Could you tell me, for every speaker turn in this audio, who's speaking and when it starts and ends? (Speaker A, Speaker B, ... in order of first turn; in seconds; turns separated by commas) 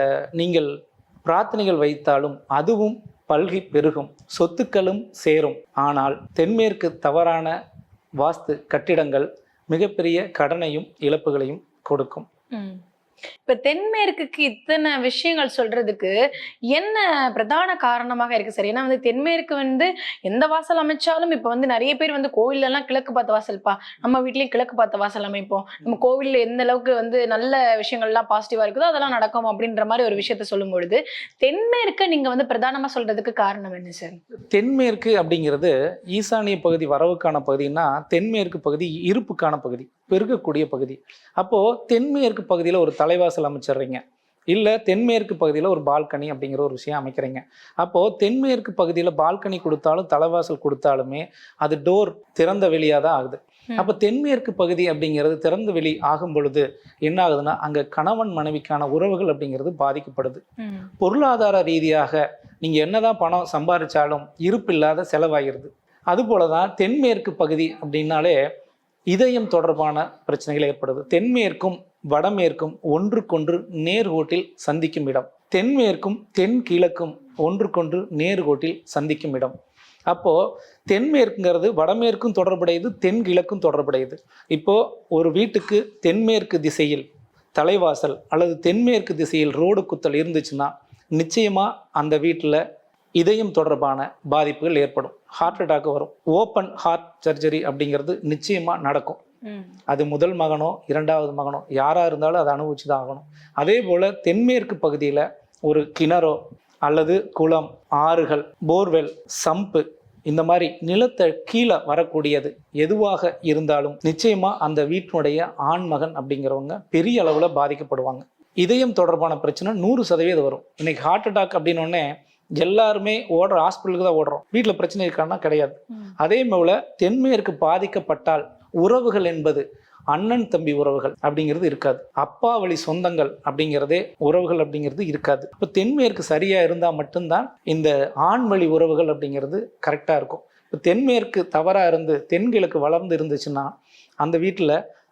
Speaker A: 0.3-0.7, Speaker A: 1.2-7.5, Speaker A: 8.2-12.3, Speaker B: 12.5-12.8, Speaker B: 13.4-16.1, Speaker B: 16.7-34.2, Speaker A: 34.5-60.4, Speaker B: 60.6-60.9, Speaker A: 61.0-68.4, Speaker A: 69.1-79.5, Speaker A: 80.1-92.6, Speaker A: 93.2-99.2, Speaker B: 99.5-99.7, Speaker A: 99.9-122.1, Speaker A: 122.6-144.8